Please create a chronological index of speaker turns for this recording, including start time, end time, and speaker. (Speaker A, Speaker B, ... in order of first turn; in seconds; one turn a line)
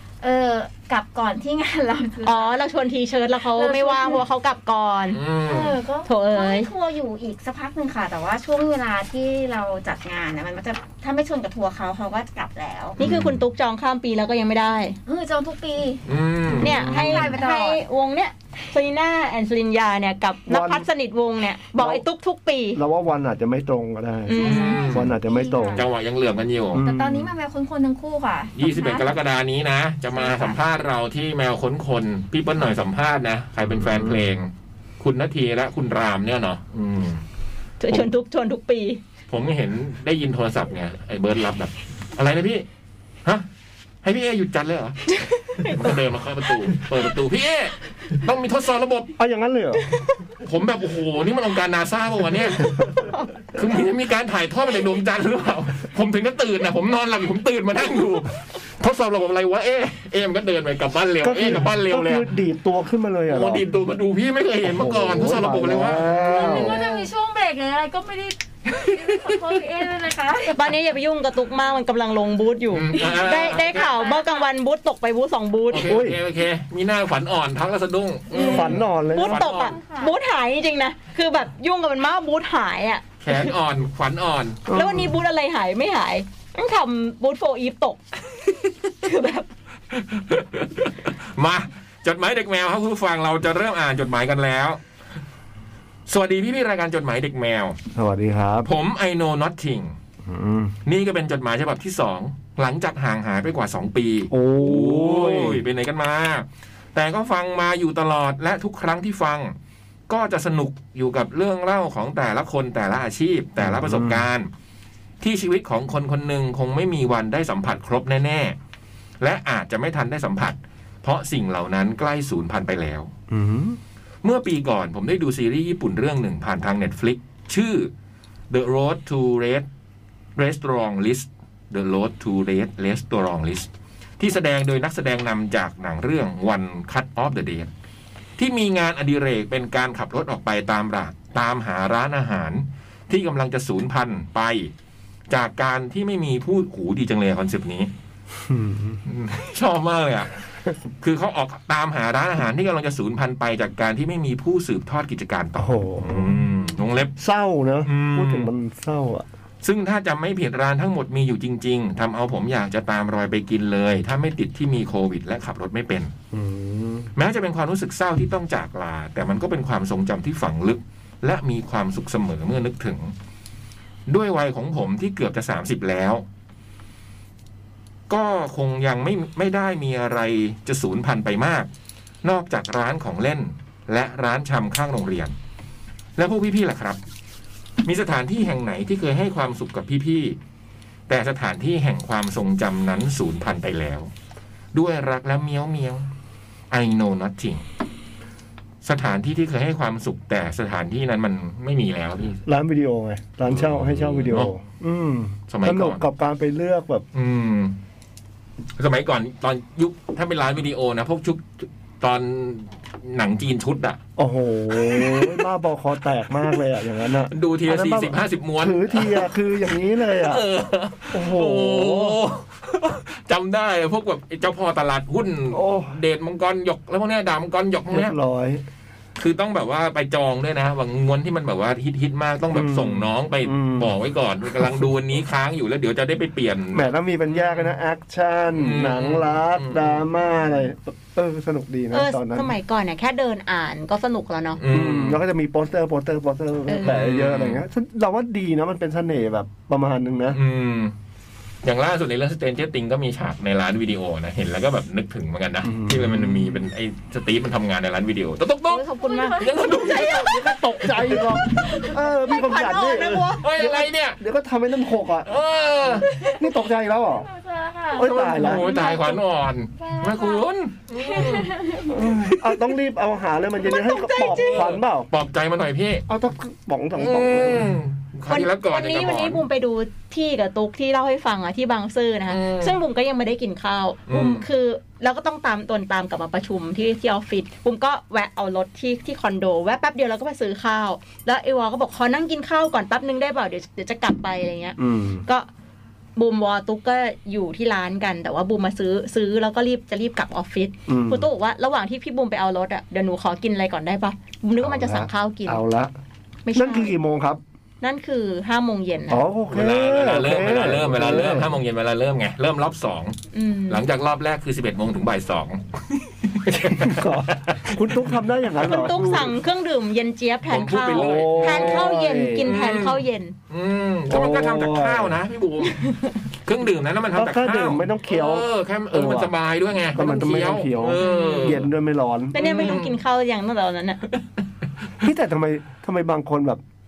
Speaker A: 0.2-2.6
Speaker B: 2.2-5.2
Speaker A: 3.4-4.2
Speaker C: 5.1-5.8
Speaker A: 5.4-12.9
Speaker B: 6.0-6.7
Speaker B: 13.0-15.0
Speaker C: 13.0-13.4
Speaker A: 15.1-16.0
Speaker C: 16.1-16.7
Speaker D: 16.6-17.4
Speaker B: 16.6-22.8
Speaker A: 16.8-17.8
Speaker D: 20.5-20.9
Speaker D: 21.8-22.0
Speaker D: 22.7-25.9
Speaker B: 24.2-24.9
Speaker A: 24.3-25.9
Speaker C: 24.4-25.1
Speaker C: 25.7-26.8
Speaker D: 26.7-27.3
Speaker A: 26.8-29.1
Speaker C: 28.6-37.2
Speaker A: 30.1-30.6
Speaker D: 33.8-34.3
Speaker B: 37.8-39.0
Speaker C: 39.3-42.6
Speaker C: 44.0-45.0
Speaker B: 45.2-45.9
Speaker C: 45.6-49.1
Speaker D: 49.2-49.8
Speaker C: 50.4-52.9
Speaker C: 53.5-62.3
Speaker D: 61.2-63.7
Speaker C: 63.3-66.6
Speaker D: 64.6-66.8
Speaker A: 66.0-70.7
Speaker B: 70.5-75.9
Speaker C: 72.7-73.8
Speaker A: 72.9-74.5
Speaker C: 75.7-79.7
Speaker D: 75.8-76.2
Speaker B: 78.3-83.5
Speaker A: 78.3-78.6
Speaker D: 78.4-79.5
Speaker A: 79.3-80.1
Speaker C: 83.2-84.6
Speaker D: 84.7-85.1
Speaker B: 84.7-88.0
Speaker B: 88.9-89.5
Speaker C: 89.9-94.8
Speaker C: 96.1-97.8
Speaker D: 97.9-98.7
Speaker C: 98.6-100.0
Speaker D: 100.2-100.8
Speaker C: 100.8-109.5
Speaker D: 104.3-105.6
Speaker C: 110.1-114.5
Speaker D: 113.6-114.2
Speaker C: 115.2-118.5
Speaker C: 119.2-123.1
Speaker D: 123.3-123.8
Speaker C: 124.2-127.9
Speaker C: 128.5-129.7
Speaker C: 130.3-137.7
Speaker C: 138.4-144.7
Speaker C: 145.3-147.9
Speaker D: 148.4-149.0
Speaker C: 149.1-150.4
Speaker C: 151.0-157.1
Speaker D: 155.6-156.4
Speaker D: 157.2-159.2
Speaker C: 157.8-158.5
Speaker C: 159.6-166.1
Speaker D: 166.3-167.1
Speaker C: 167.2-173.1
Speaker C: 174.1-176.2
Speaker C: 178.1-181.7
Speaker C: 182.2-185.3
Speaker C: 186.2-187.0
Speaker C: 187.8-190.4
Speaker C: 191.1-194.1
Speaker C: 194.7-196.1
Speaker C: 196.7-197.6
Speaker C: 198.8-202.4
Speaker D: 202.4-207.0
Speaker C: 203.5-204.5
Speaker C: 205.5-206.0
Speaker C: 207.1-207.8
Speaker C: 208.8-214.0
Speaker D: 214.2-220.4
Speaker C: 214.7-215.4
Speaker C: 217.3-219.3
Speaker C: 220.0-228.1
Speaker D: 221.1-222.2
Speaker D: 225.5-226.0
Speaker D: 227.9-228.6
Speaker C: 229.2-237.7
Speaker D: 232.5-233.9
Speaker D: 234.5-234.8
Speaker D: 236.7-242.5
Speaker C: 238.5-240.0
Speaker B: 241.9-244.6
Speaker C: 244.6-245.2
Speaker D: 244.7-250.4
Speaker B: 246.7-246.9
Speaker C: 246.8-247.6
Speaker C: 250.3-250.9
Speaker C: 251.6-261.2
Speaker D: 255.6-256.6
Speaker B: 258.7-260.1
Speaker A: 258.9-260.4
Speaker D: 260.0-265.3
Speaker A: 261.7-261.9
Speaker B: 262.2-263.4
Speaker C: 263.4-264.2
Speaker C: 265.2-266.1
Speaker A: 266.0-266.4
Speaker D: 266.2-267.3
Speaker A: 267.2-269.2
Speaker D: 267.9-268.7
Speaker C: 268.0-271.6
Speaker B: 268.7-269.1
Speaker A: 269.8-270.4
Speaker A: 271.0-271.9
Speaker D: 271.9-275.1
Speaker B: 273.6-274.6
Speaker C: 274.3-276.1
Speaker D: 276.1-277.8
Speaker C: 276.9-279.4
Speaker B: 278.3-295.5
Speaker C: 282.3-282.7
Speaker C: 284.1-284.4
Speaker D: 294.8-295.2
Speaker B: 296.1-305.6
Speaker D: 300.9-301.3
Speaker D: 304.6-305.9
Speaker B: 306.4-306.9
Speaker D: 306.5-307.4
Speaker B: 307.8-309.3
Speaker D: 309.1-311.6
Speaker C: 309.5-313.2
Speaker B: 313.3-313.8
Speaker C: 313.7-318.1
Speaker D: 316.5-319.3
Speaker B: 318.6-323.3
Speaker C: 318.7-319.2
Speaker C: 320.5-325.9
Speaker D: 320.9-322.5
Speaker D: 324.1-325.2
Speaker B: 325.7-326.1
Speaker C: 326.4-331.7
Speaker D: 327.1-329.3
Speaker D: 329.9-332.4
Speaker B: 331.0-331.6
Speaker B: 332.3-334.0
Speaker C: 332.3-333.0
Speaker D: 335.0-336.6